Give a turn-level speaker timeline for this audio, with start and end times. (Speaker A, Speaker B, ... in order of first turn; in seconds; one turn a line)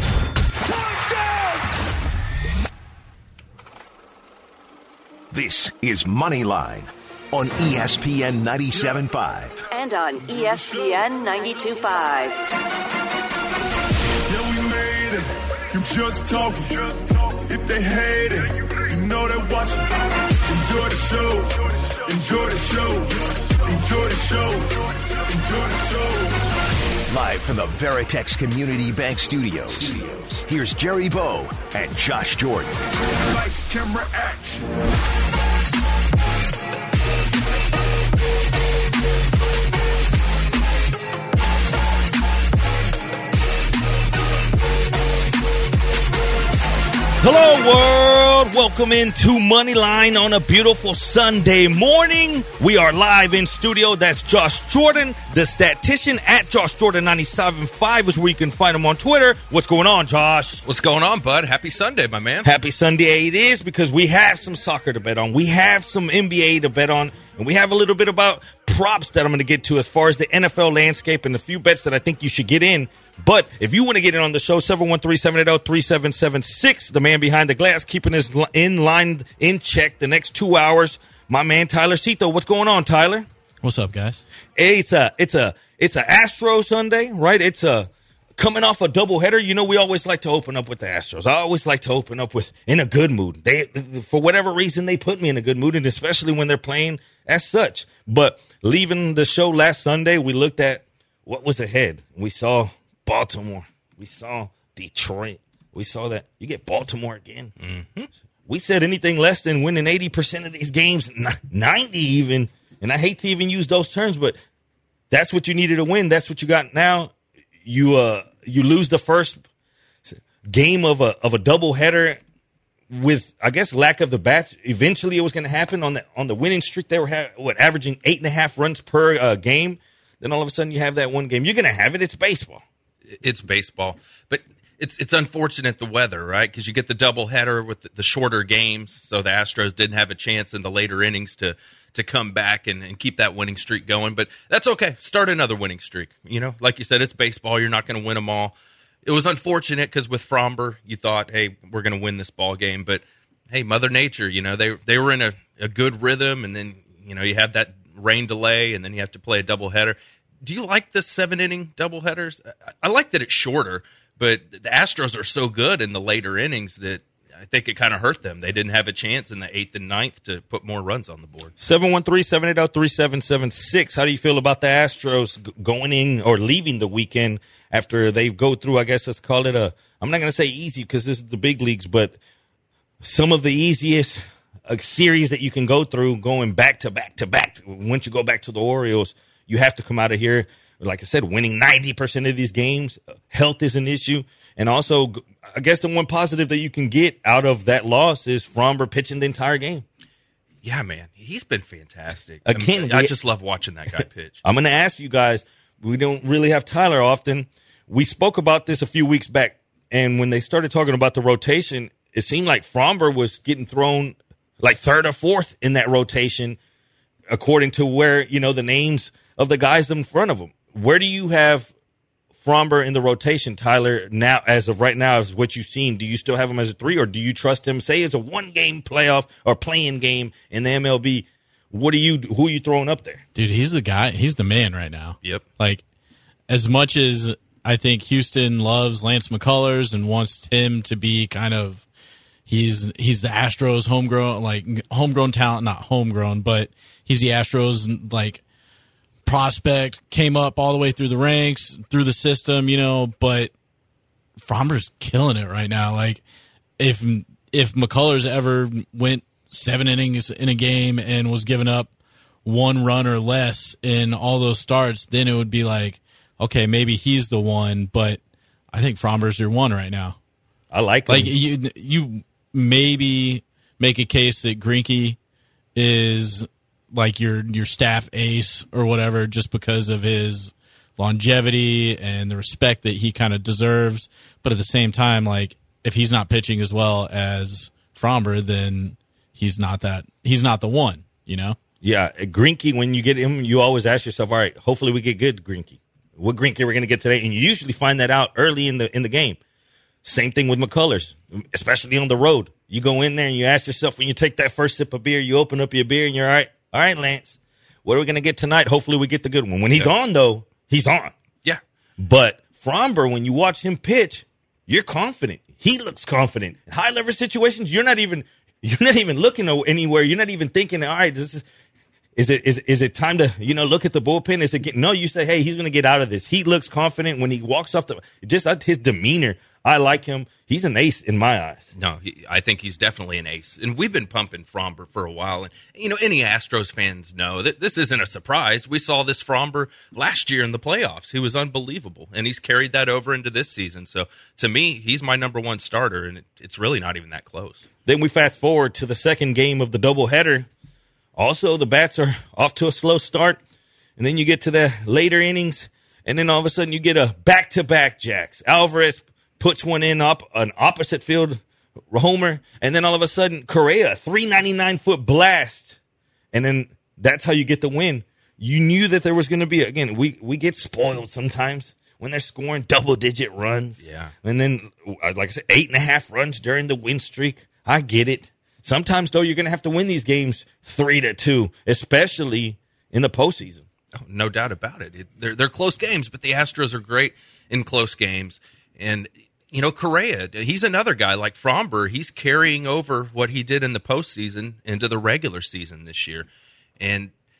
Speaker A: 0.7-1.6
Speaker B: 5.3-9.6
Speaker C: 9.7-12.4
Speaker A: 14.3-19.8
Speaker A: 20.5-26.4
Speaker B: 27.1-32.8
Speaker A: 33.2-34.7
Speaker D: 47.2-60.6
Speaker E: 60.6-62.5
Speaker D: 62.4-83.3
Speaker F: 83.6-84.2
Speaker D: 84.5-107.5
Speaker E: 107.6-108.1
Speaker D: 108.5-114.4
Speaker D: 115.1-117.1
Speaker D: 117.6-119.4
Speaker D: 120.0-122.2
Speaker D: 122.9-132.6
Speaker E: 133.1-171.5
Speaker D: 171.6-182.2
Speaker D: 183.0-199.8
Speaker E: 200.6-204.4
Speaker D: 202.4-203.1
Speaker D: 204.4-216.6
Speaker D: 217.3-221.7
Speaker D: 222.4-233.2
Speaker F: 233.3-235.8
Speaker F: 236.5-241.8
Speaker F: 242.4-248.4
Speaker F: 249.2-253.5
Speaker F: 254.4-256.2
Speaker F: 256.8-261.9
Speaker F: 262.4-268.2
Speaker F: 268.7-270.2
Speaker D: 270.7-271.3
Speaker F: 271.1-275.2
Speaker F: 275.7-291.6
Speaker D: 291.8-299.4
Speaker D: 300.0-311.1
Speaker D: 312.0-321.4
Speaker D: 322.1-331.7
Speaker E: 331.8-347.6
Speaker D: 347.9-350.5
Speaker D: 351.1-353.4
Speaker D: 354.0-365.8
Speaker D: 366.3-383.6
Speaker E: 373.8-374.1
Speaker E: 384.0-396.3
Speaker E: 396.8-397.1